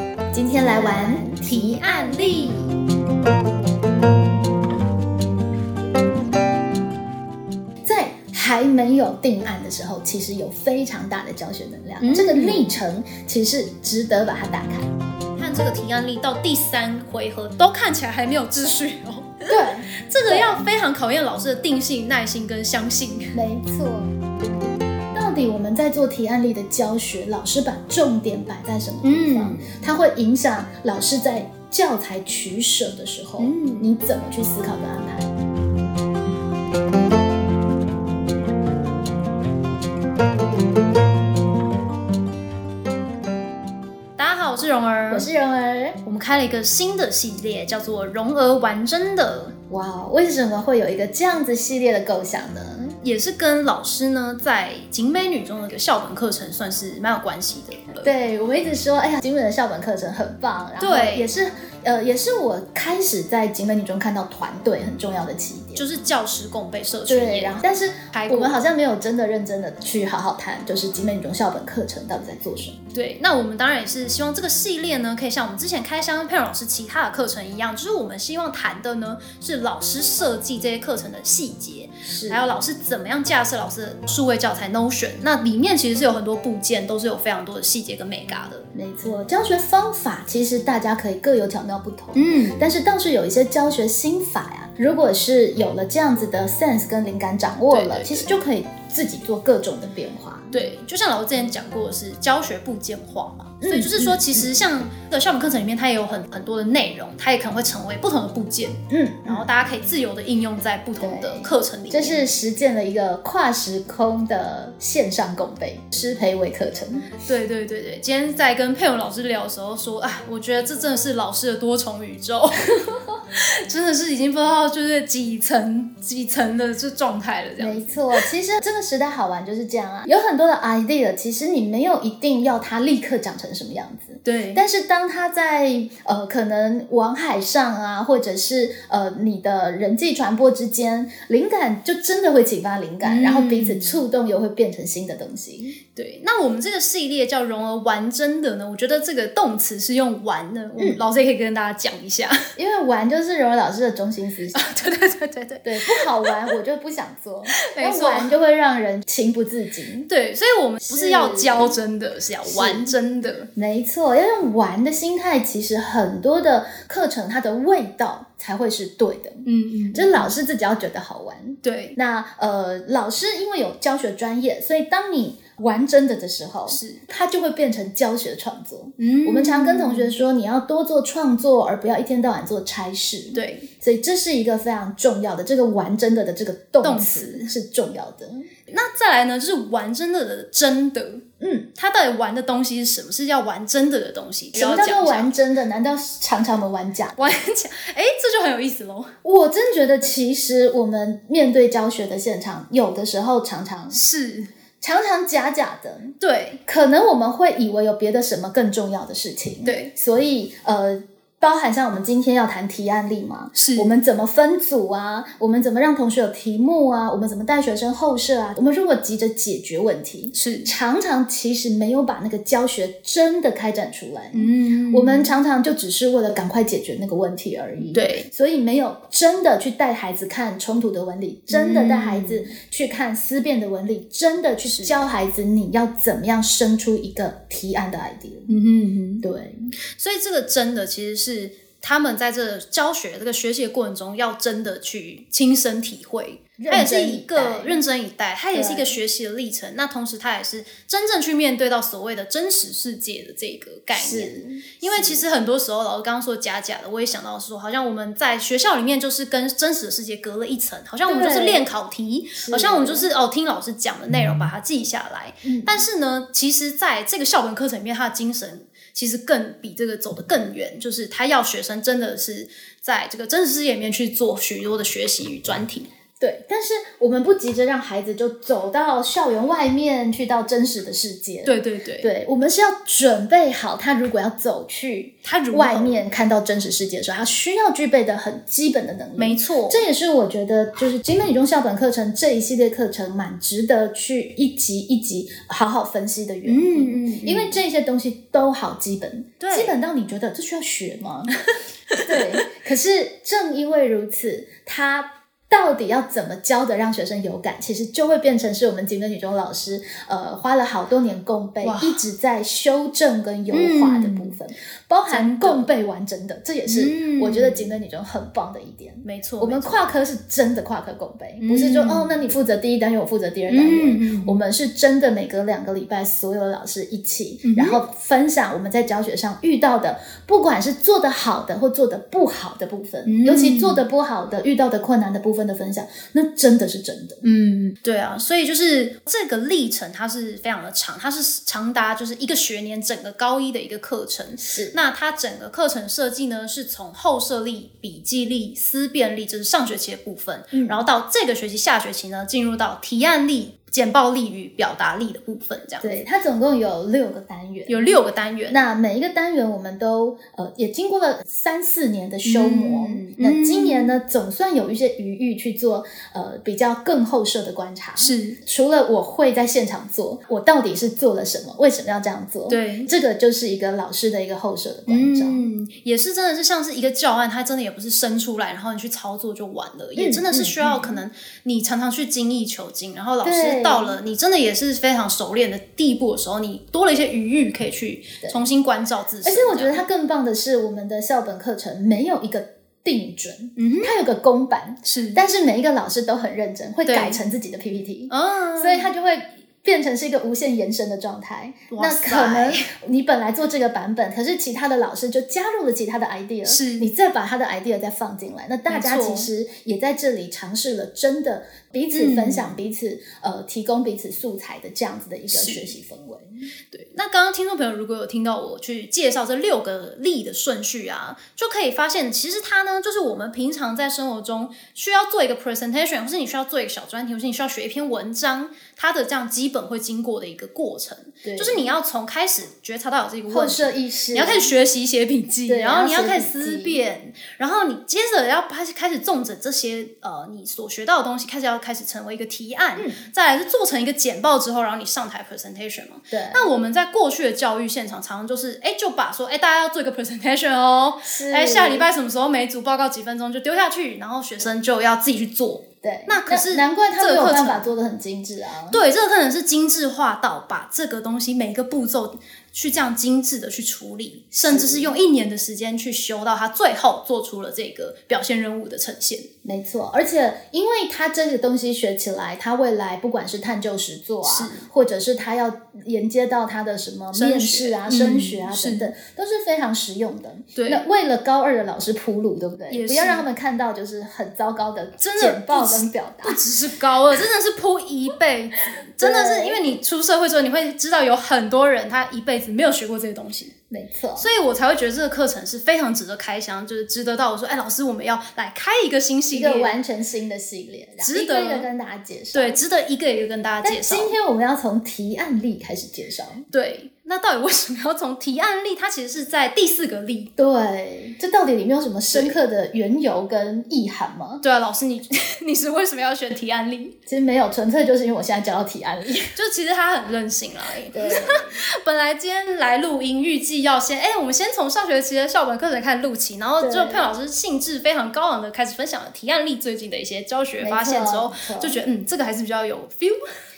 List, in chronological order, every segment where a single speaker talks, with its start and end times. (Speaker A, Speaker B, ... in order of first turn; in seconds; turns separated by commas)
Speaker A: 0.3-1.8, Speaker B: 1.1-2.7, Speaker A: 7.8-14.9, Speaker B: 12.0-12.6, Speaker B: 15.3-23.4, Speaker A: 19.5-20.6, Speaker A: 23.3-24.1, Speaker A: 25.1-35.3, Speaker B: 29.0-29.8, Speaker B: 33.4-33.9, Speaker B: 44.2-45.3, Speaker A: 45.1-46.0, Speaker B: 46.0-49.5, Speaker A: 49.7-53.0, Speaker B: 53.0-58.1, Speaker A: 58.0-65.9, Speaker B: 60.8-61.3, Speaker B: 65.8-67.6, Speaker A: 67.1-72.8, Speaker B: 68.1-68.6, Speaker B: 72.9-88.7, Speaker A: 82.0-82.4, Speaker A: 88.8-100.5, Speaker B: 92.2-92.6, Speaker B: 97.7-98.4, Speaker B: 100.5-112.2, Speaker A: 103.6-104.5, Speaker A: 108.9-109.5, Speaker A: 111.0-117.2, Speaker B: 117.2-122.8, Speaker A: 122.8-123.2, Speaker B: 123.3-128.3, Speaker A: 127.6-145.8, Speaker B: 134.2-134.6, Speaker B: 143.0-144.0, Speaker B: 145.9-152.5, Speaker A: 152.6-154.6, Speaker B: 154.6-156.3, Speaker A: 155.6-160.1, Speaker B: 157.7-158.3, Speaker B: 160.1-163.5, Speaker A: 160.8-161.8, Speaker A: 162.4-162.9, Speaker A: 163.6-188.5, Speaker B: 169.4-170.3, Speaker B: 171.6-172.0, Speaker B: 176.7-177.0, Speaker B: 179.0-180.2, Speaker B: 183.3-183.7, Speaker B: 186.8-187.5, Speaker B: 188.7-191.2, Speaker A: 191.4-191.7, Speaker B: 191.8-195.3, Speaker A: 194.5-197.2, Speaker B: 197.2-199.1, Speaker A: 199.2-204.0, Speaker B: 203.9-204.5, Speaker A: 204.8-238.5, Speaker B: 206.2-206.6, Speaker B: 209.6-209.9, Speaker B: 213.6-213.9, Speaker B: 220.3-220.7, Speaker B: 224.3-225.3, Speaker B: 227.9-228.3, Speaker B: 231.5-232.5, Speaker B: 234.7-235.0, Speaker B: 238.5-239.2, Speaker A: 239.2-239.7, Speaker B: 240.0-275.9, Speaker A: 246.6-247.8, Speaker A: 248.5-249.0, Speaker A: 253.9-255.2, Speaker A: 261.1-261.6, Speaker A: 262.4-263.1, Speaker A: 265.4-265.8, Speaker A: 276.2-301.4, Speaker B: 281.4-282.1, Speaker B: 285.2-286.0, Speaker B: 289.2-289.9, Speaker B: 296.4-297.6, Speaker B: 299.4-299.7, Speaker B: 301.9-302.4, Speaker A: 302.0-337.2, Speaker B: 311.6-312.0, Speaker B: 313.5-314.4, Speaker B: 315.1-315.7, Speaker B: 316.7-317.7, Speaker B: 319.0-319.7, Speaker B: 321.4-322.1, Speaker B: 323.5-324.4, Speaker B: 327.4-327.8, Speaker B: 333.1-333.8, Speaker B: 337.2-356.0, Speaker A: 344.4-344.8, Speaker A: 350.5-350.9, Speaker A: 355.8-358.0, Speaker B: 357.7-358.6, Speaker A: 358.5-375.4, Speaker B: 362.2-363.9, Speaker B: 368.0-368.4, Speaker B: 372.5-372.9, Speaker B: 374.9-389.8, Speaker A: 380.0-381.0, Speaker A: 383.2-384.0, Speaker A: 389.2-416.4, Speaker B: 393.6-393.9, Speaker B: 394.9-395.2, Speaker B: 396.9-397.2, Speaker B: 398.1-398.9, Speaker B: 401.7-402.7, Speaker B: 406.4-406.9, Speaker B: 408.7-409.3, Speaker B: 411.9-412.5, Speaker B: 415.3-415.8, Speaker B: 416.7-457.7, Speaker A: 431.2-431.7, Speaker A: 433.3-434.6, Speaker A: 435.5-436.8, Speaker A: 442.8-443.1, Speaker A: 446.1-446.5, Speaker A: 451.1-451.9, Speaker A: 455.8-458.8, Speaker B: 458.7-469.3, Speaker A: 464.3-464.9, Speaker A: 469.4-486.4, Speaker B: 474.2-474.6, Speaker B: 477.1-478.9, Speaker B: 480.6-480.9, Speaker B: 482.7-483.2, Speaker B: 485.0-493.5, Speaker A: 489.0-489.6, Speaker A: 493.7-494.3, Speaker B: 494.2-499.8, Speaker A: 499.3-502.6, Speaker B: 501.0-501.7, Speaker B: 502.3-504.1, Speaker A: 503.6-506.5, Speaker B: 506.5-510.3, Speaker A: 510.4-514.4, Speaker B: 512.1-512.4, Speaker B: 514.4-517.0, Speaker A: 517.1-519.3, Speaker B: 519.4-533.2, Speaker A: 520.9-521.6, Speaker A: 526.6-527.1, Speaker A: 530.6-531.8